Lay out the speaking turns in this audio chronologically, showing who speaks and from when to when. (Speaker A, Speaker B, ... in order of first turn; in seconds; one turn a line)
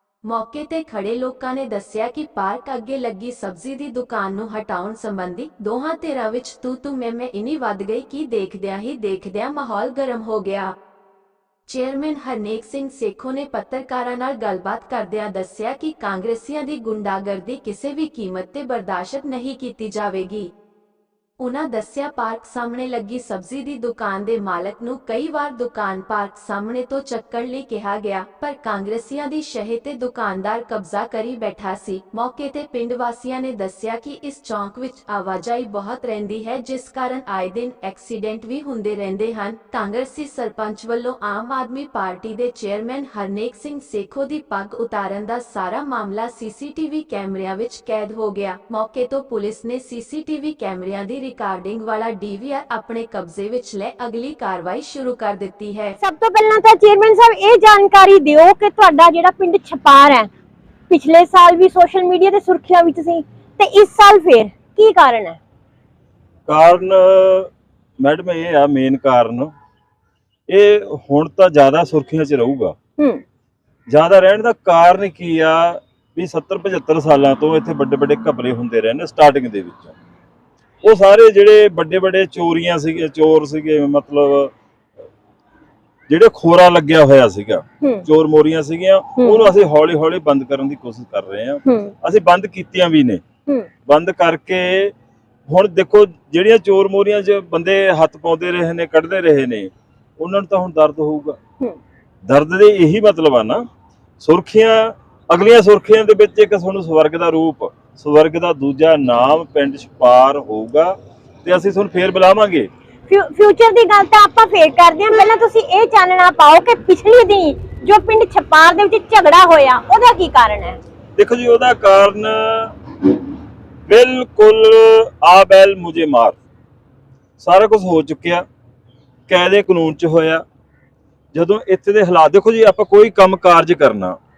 Speaker A: 0.2-10.7
Speaker A: 11.7-20.5
Speaker A: 21.4-56.0
Speaker B: 56.0-60.3
Speaker B: 60.9-65.4
Speaker C: 66.5-69.5
Speaker C: 70.5-72.8
Speaker C: 73.9-79.9
Speaker C: 80.8-84.5
Speaker C: 86.1-93.2
Speaker B: 89.2-89.5
Speaker B: 91.7-91.9
Speaker C: 93.9-94.9
Speaker C: 95.5-101.4
Speaker C: 102.2-103.7
Speaker C: 104.2-112.7
Speaker B: 113.1-120.8
Speaker C: 121.2-122.8
Speaker C: 123.9-126.4
Speaker C: 127.4-128.4
Speaker C: 129.3-130.4
Speaker C: 131.3-134.2